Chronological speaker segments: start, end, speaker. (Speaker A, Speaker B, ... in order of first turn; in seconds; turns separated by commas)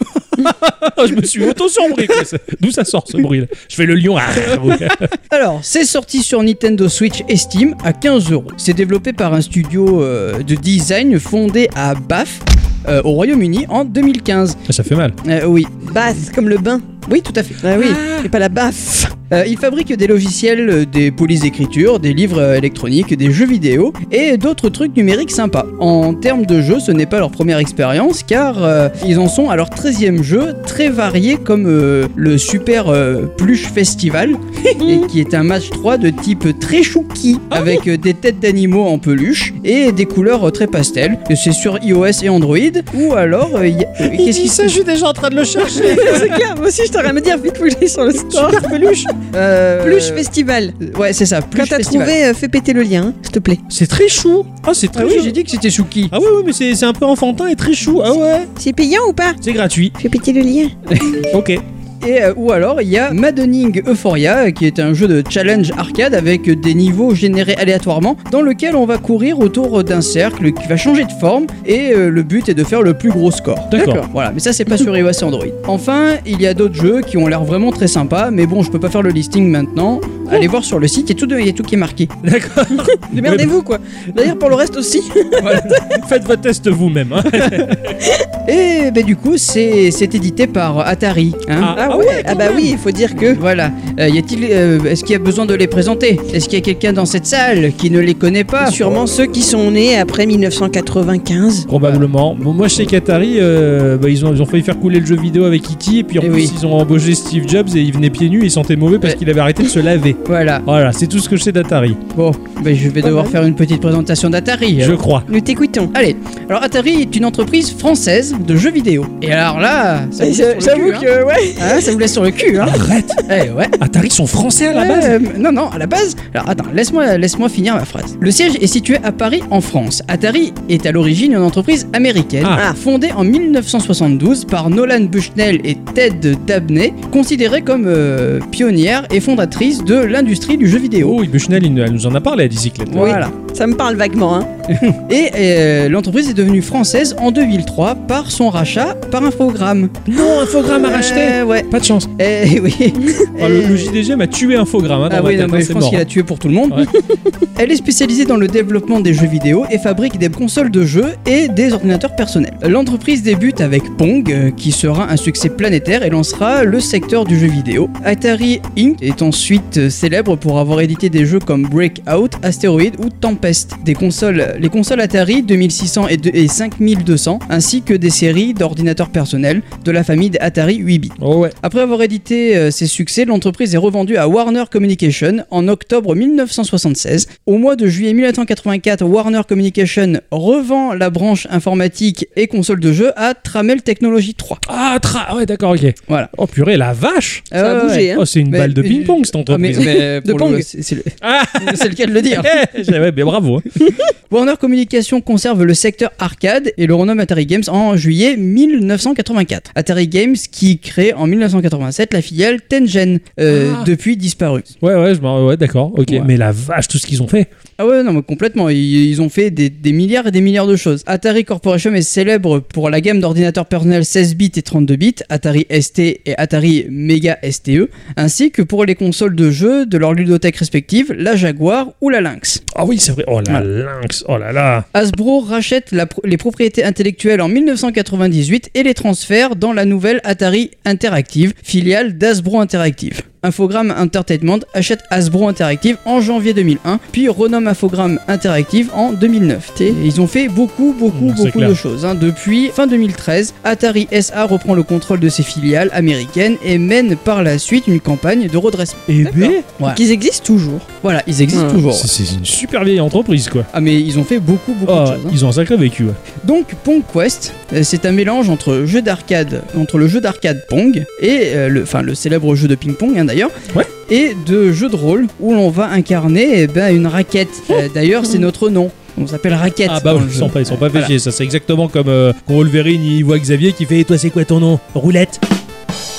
Speaker A: 0.4-5.1, Speaker B: 5.3-14.6, Speaker A: 14.7-15.2, Speaker B: 15.2-15.8, Speaker C: 15.8-16.9, Speaker B: 17.1-18.0, Speaker C: 17.6-19.1, Speaker A: 17.7-18.3, Speaker B: 19.3-44.8, Speaker C: 34.8-35.0, Speaker A: 44.0-46.4, Speaker C: 45.7-48.7, Speaker A: 48.3-49.1, Speaker B: 49.3-50.3, Speaker C: 49.8-50.8, Speaker B: 50.8-52.1, Speaker C: 51.5-53.6, Speaker A: 53.7-55.3, Speaker B: 54.9-56.1, Speaker A: 56.1-58.5, Speaker C: 58.6-59.4, Speaker A: 59.4-59.9, Speaker C: 60.0-60.7, Speaker B: 60.9-61.3, Speaker A: 61.3-61.6, Speaker B: 62.0-82.1, Speaker A: 73.7-74.0, Speaker C: 73.8-74.1, Speaker A: 82.2-83.5, Speaker C: 82.9-85.9, Speaker B: 85.4-85.8, Speaker A: 85.7-88.0, Speaker B: 87.4-87.7, Speaker B: 88.5-92.5, Speaker A: 91.6-92.7, Speaker C: 91.7-93.4, Speaker B: 93.2-99.0, Speaker C: 98.6-101.7, Speaker A: 101.7-112.0, Speaker B: 101.8-102.0, Speaker B: 106.2-106.5, Speaker B: 110.2-110.6, Speaker B: 112.1-115.0, Speaker C: 113.0-113.3, Speaker A: 114.8-115.3, Speaker C: 115.3-115.9, Speaker B: 115.9-123.8, Speaker C: 120.2-122.0, Speaker A: 122.5-123.2, Speaker A: 123.8-125.2, Speaker B: 124.7-141.2, Speaker A: 141.0-143.2, Speaker B: 142.9-143.3, Speaker C: 142.9-144.5, Speaker B: 144.7-150.1, Speaker A: 150.1-152.1, Speaker B: 150.6-154.0, Speaker A: 153.4-156.0, Speaker B: 155.1-156.9, Speaker B: 157.6-194.6, Speaker A: 181.2-181.6, Speaker A: 194.6-197.5, Speaker B: 197.5-202.6, Speaker C: 197.6-198.2, Speaker A: 198.0-200.0, Speaker C: 199.8-200.6, Speaker A: 201.2-203.7, Speaker B: 204.3-214.7, Speaker A: 213.5-213.9, Speaker A: 214.8-217.5, Speaker B: 217.8-232.6, Speaker A: 232.7-234.8, Speaker B: 234.9-260.0, Speaker A: 251.1-251.8, Speaker A: 259.1-259.6, Speaker C: 259.2-260.9, Speaker B: 261.0-262.1, Speaker C: 261.5-261.8, Speaker A: 261.9-263.7, Speaker B: 263.7-265.4, Speaker A: 264.9-266.2, Speaker B: 266.4-273.5, Speaker B: 274.1-281.1, Speaker A: 279.9-285.4